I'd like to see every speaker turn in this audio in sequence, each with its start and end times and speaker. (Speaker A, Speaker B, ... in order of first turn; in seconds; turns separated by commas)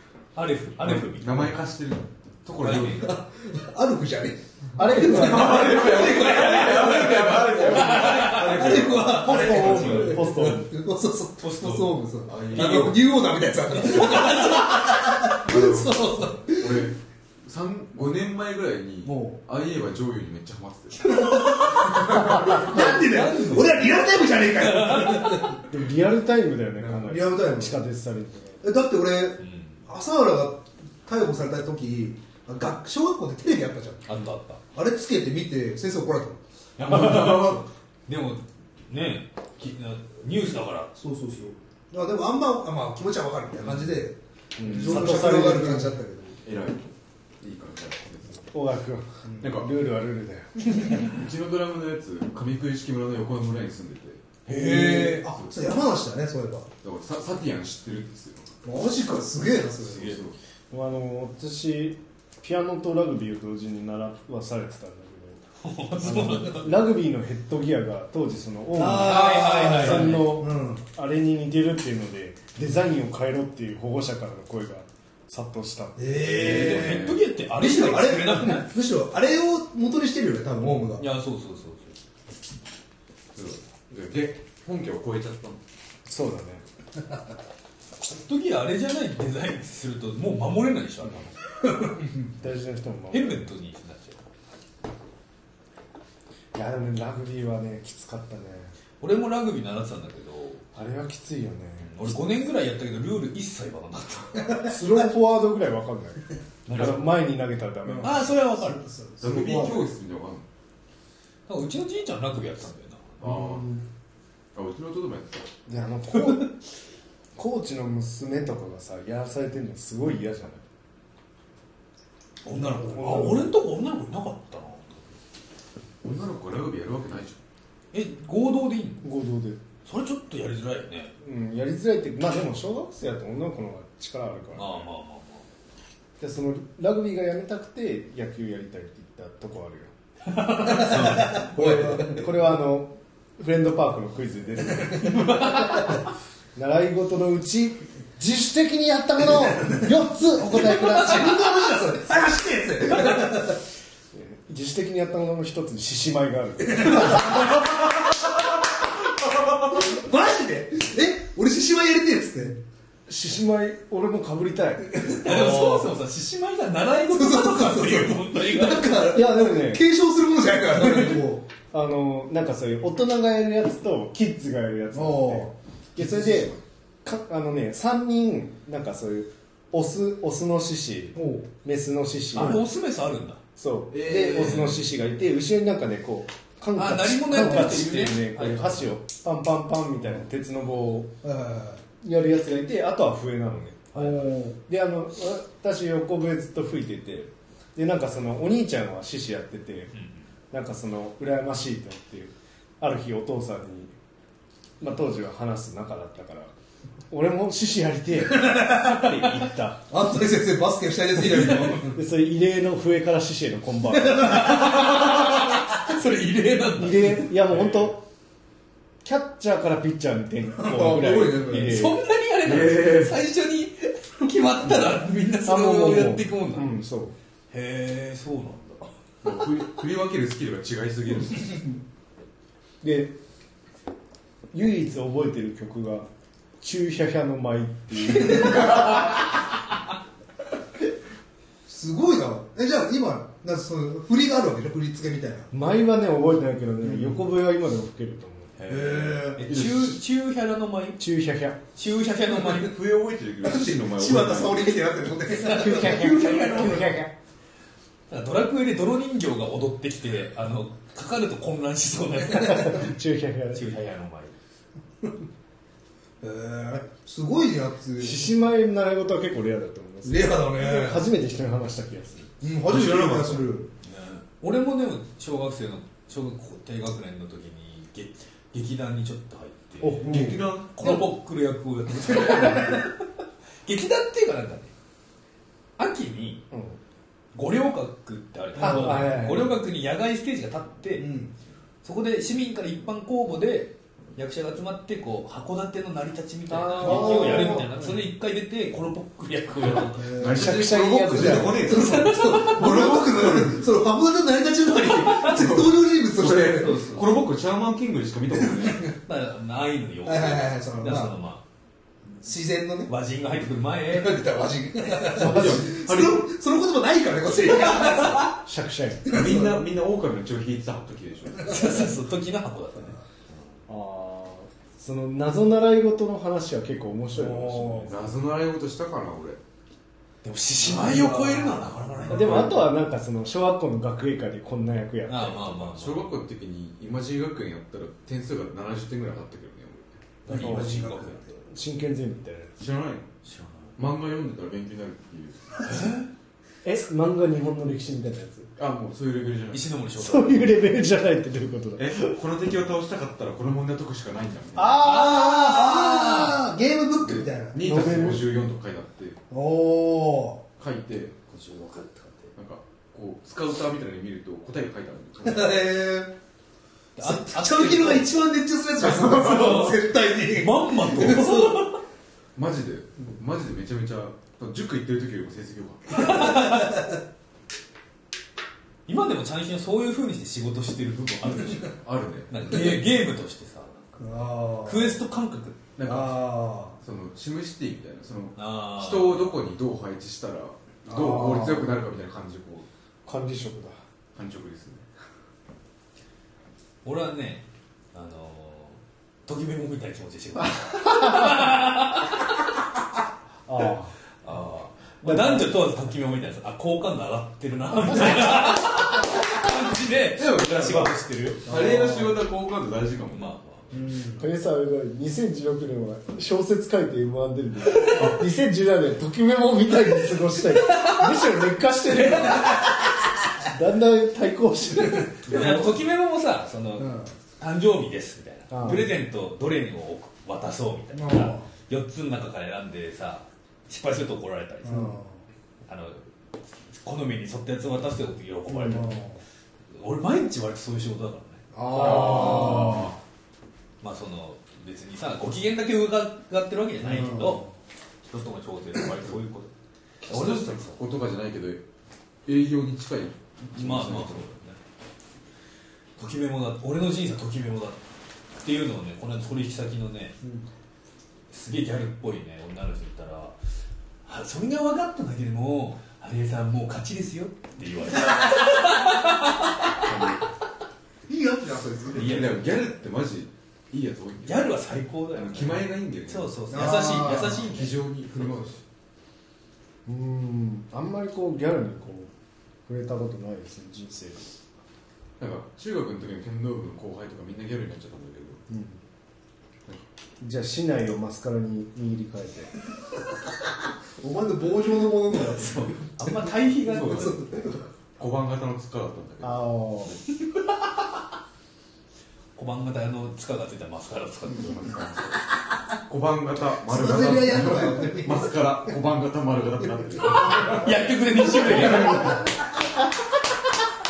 Speaker A: 0.3-1.6, Speaker B: 0.8-3.1, Speaker A: 2.6-3.1, Speaker C: 3.0-16.9, Speaker D: 4.8-5.8, Speaker B: 4.8-10.0, Speaker A: 6.2-10.5, Speaker D: 9.2-10.7, Speaker A: 11.4-12.0, Speaker B: 12.3-13.1, Speaker A: 12.5-13.0, Speaker A: 13.7-14.9, Speaker B: 15.4-22.9, Speaker C: 19.0-19.4, Speaker C: 21.0-25.7, Speaker A: 22.5-25.5, Speaker D: 25.7-28.6, Speaker C: 26.8-27.8, Speaker C: 28.6-34.1, Speaker A: 29.4-29.8, Speaker A: 34.0-34.6, Speaker C: 34.7-36.4, Speaker A: 36.8-40.9, Speaker B: 36.8-37.6, Speaker C: 41.0-46.4, Speaker D: 44.6-46.0, Speaker B: 44.6-45.2, Speaker B: 46.4-46.8, Speaker B: 47.4-48.5, Speaker D: 48.4-50.9, Speaker B: 49.4-49.7, Speaker B: 50.8-54.2, Speaker A: 54.5-55.3, Speaker C: 54.5-56.7, Speaker B: 56.8-58.5, Speaker C: 58.6-60.2, Speaker B: 59.8-60.4, Speaker D: 60.7-65.4, Speaker A: 65.6-66.8, Speaker D: 66.0-76.6, Speaker C: 68.7-70.8, Speaker A: 68.8-70.3, Speaker C: 76.0-81.0, Speaker A: 76.3-78.7, Speaker B: 76.4-77.2, Speaker A: 81.0-82.0, Speaker B: 83.3-85.6, Speaker D: 86.0-86.6, Speaker A: 88.0-91.4, Speaker C: 91.6-92.3, Speaker D: 92.4-93.5, Speaker A: 93.1-94.2, Speaker D: 96.5-98.7, Speaker A: 99.0-100.6, Speaker D: 100.7-101.9, Speaker A: 101.8-104.6, Speaker D: 104.6-108.3, Speaker A: 106.7-107.0, Speaker C: 107.8-109.8, Speaker A: 108.0-108.8, Speaker B: 109.2-110.4, Speaker D: 109.2-109.9, Speaker A: 111.5-113.2, Speaker B: 113.2-113.7, Speaker D: 113.2-113.8, Speaker B: 114.5-115.5, Speaker D: 115.7-116.5, Speaker D: 117.3-120.6, Speaker A: 122.4-125.1, Speaker D: 122.8-123.4, Speaker C: 122.9-123.2, Speaker B: 126.0-127.4, Speaker A: 127.9-129.1, Speaker D: 129.0-129.6, Speaker A: 129.8-131.1, Speaker D: 131.2-134.9, Speaker A: 134.5-135.4, Speaker D: 136.2-139.9, Speaker A: 140.2-141.5, Speaker C: 140.5-142.3, Speaker D: 140.7-145.9, Speaker A: 145.0-145.9, Speaker D: 146.5-151.4, Speaker C: 150.4-153.6, Speaker D: 154.1-157.5, Speaker C: 156.7-157.8, Speaker C: 159.4-162.6, Speaker D: 163.1-165.2, Speaker C: 164.9-165.9, Speaker A: 165.1-169.1, Speaker C: 167.1-171.4, Speaker D: 169.1-169.8, Speaker D: 171.7-182.6, Speaker C: 174.9-175.5, Speaker B: 176.0-176.6, Speaker C: 181.1-181.5, Speaker A: 182.3-183.4, Speaker D: 183.6-191.1, Speaker B: 183.9-184.8, Speaker A: 186.7-188.8, Speaker C: 191.2-191.8, Speaker D: 192.0-199.9, Speaker A: 193.9-194.3, Speaker C: 194.1-194.6, Speaker D: 200.5-203.9, Speaker D: 204.8-206.5, Speaker D: 207.1-209.8, Speaker C: 208.3-209.2, Speaker A: 208.8-209.6, Speaker C: 209.9-212.0, Speaker D: 211.3-214.7, Speaker A: 214.2-217.9, Speaker C: 214.2-214.7, Speaker D: 216.8-218.0, Speaker D: 219.0-222.0, Speaker C: 220.6-221.8, Speaker A: 221.5-226.7, Speaker B: 222.4-223.2, Speaker D: 225.4-227.1, Speaker A: 227.5-228.9, Speaker B: 229.2-231.6, Speaker D: 232.8-233.1, Speaker D: 234.5-236.1, Speaker D: 236.6-239.1, Speaker C: 241.7-245.5, Speaker D: 245.5-248.5, Speaker C: 246.8-247.2, Speaker A: 248.6-251.0, Speaker C: 248.7-249.5, Speaker B: 249.4-250.0, Speaker D: 251.0-251.7, Speaker A: 251.7-252.7, Speaker B: 252.4-254.8, Speaker C: 253.4-256.8, Speaker A: 255.3-256.9, Speaker D: 255.5-257.1, Speaker A: 258.1-262.9, Speaker D: 262.3-263.6, Speaker A: 263.5-264.4, Speaker C: 266.2-268.3, Speaker D: 268.0-272.4, Speaker C: 270.0-271.0, Speaker C: 272.4-273.7, Speaker B: 272.7-273.5, Speaker A: 273.8-284.7, Speaker D: 279.8-280.4, Speaker B: 280.1-280.7, Speaker C: 280.1-280.9, Speaker A: 285.8-286.4, Speaker D: 286.5-286.8, Speaker A: 287.3-291.1, Speaker D: 288.6-289.6, Speaker C: 291.0-291.3, Speaker A: 291.8-300.1, Speaker D: 296.5-297.8, Speaker C: 296.8-297.8, Speaker C: 299.9-306.8, Speaker B: 300.0-303.6, Speaker D: 300.2-301.9, Speaker A: 301.7-302.6, Speaker B: 305.1-308.9, Speaker A: 306.2-307.1, Speaker C: 308.4-308.9, Speaker A: 309.0-311.4, Speaker C: 310.0-311.1, Speaker C: 312.2-312.9, Speaker A: 312.9-314.2, Speaker C: 313.9-318.4, Speaker B: 315.1-316.3, Speaker D: 315.2-315.7, Speaker D: 318.4-319.2, Speaker C: 319.1-319.5, Speaker B: 319.1-321.9, Speaker A: 321.4-323.0, Speaker D: 323.7-328.0, Speaker C: 327.1-328.0, Speaker B: 327.9-329.4, Speaker A: 330.2-332.5, Speaker C: 330.6-332.4, Speaker D: 332.1-335.5, Speaker A: 335.1-336.1, Speaker B: 335.5-340.0, Speaker A: 340.2-341.2, Speaker C: 340.3-341.4, Speaker D: 340.3-342.6, Speaker B: 342.6-343.1, Speaker A: 343.2-343.7, Speaker B: 343.8-345.9, Speaker A: 345.7-346.0, Speaker D: 346.6-348.5, Speaker B: 348.6-349.7, Speaker A: 349.5-350.5, Speaker D: 350.0-352.1, Speaker B: 351.8-354.9, Speaker D: 354.6-355.5, Speaker C: 354.8-357.7, Speaker A: 354.8-356.4, Speaker B: 357.0-359.2, Speaker D: 357.6-358.3, Speaker C: 359.3-360.4, Speaker B: 360.6-361.1, Speaker A: 361.3-362.3, Speaker B: 362.4-365.6, Speaker C: 365.2-366.1, Speaker A: 367.0-368.1, Speaker C: 367.0-371.7, Speaker B: 368.8-369.6, Speaker A: 369.0-371.8, Speaker B: 372.4-376.3, Speaker A: 375.9-376.8, Speaker C: 376.1-376.9, Speaker A: 378.9-381.7, Speaker B: 381.7-382.7, Speaker A: 382.3-384.0, Speaker C: 384.0-385.0, Speaker A: 384.6-385.6, Speaker B: 385.8-392.7, Speaker C: 385.8-386.8, Speaker A: 388.4-389.4, Speaker C: 390.9-391.6, Speaker D: 393.0-393.8, Speaker B: 394.1-394.8, Speaker A: 396.8-402.4, Speaker D: 400.9-401.4, Speaker D: 403.4-403.9, Speaker A: 404.2-411.4, Speaker D: 405.0-405.5, Speaker D: 407.9-408.6, Speaker B: 410.1-413.3, Speaker C: 411.4-412.1, Speaker A: 413.1-413.7, Speaker C: 413.7-414.2, Speaker D: 414.2-422.6, Speaker B: 417.9-418.2, Speaker A: 420.4-421.2, Speaker A: 421.9-422.7, Speaker D: 423.4-425.7, Speaker A: 425.2-435.0, Speaker C: 426.8-427.1, Speaker D: 428.5-428.9, Speaker C: 430.9-431.5, Speaker C: 434.6-435.2, Speaker A: 435.7-436.0, Speaker A: 436.7-439.0, Speaker C: 438.5-439.2, Speaker A: 439.7-442.6, Speaker C: 441.5-442.9, Speaker B: 441.6-442.9, Speaker A: 443.8-447.4, Speaker C: 446.8-447.5, Speaker A: 448.0-449.5, Speaker A: 450.0-450.8, Speaker B: 450.0-451.6, Speaker B: 452.2-454.2, Speaker A: 453.5-454.6, Speaker A: 456.0-457.8, Speaker A: 458.4-460.1, Speaker C: 460.2-460.5, Speaker A: 461.3-463.4, Speaker A: 464.0-470.1, Speaker B: 469.7-470.2, Speaker C: 471.1-472.2, Speaker B: 471.9-474.5, Speaker A: 471.9-472.4, Speaker A: 474.2-477.7, Speaker B: 475.1-478.6, Speaker C: 476.5-477.5, Speaker D: 479.9-482.1, Speaker D: 482.6-484.3, Speaker B: 485.2-488.4, Speaker D: 488.5-488.8, Speaker D: 490.2-492.5, Speaker C: 494.0-497.6, Speaker A: 495.3-497.3, Speaker B: 496.7-497.1, Speaker B: 498.0-499.6, Speaker D: 499.2-500.0, Speaker A: 502.4-504.6, Speaker B: 504.2-505.1, Speaker B: 505.8-512.2, Speaker C: 506.6-508.7, Speaker A: 510.4-512.3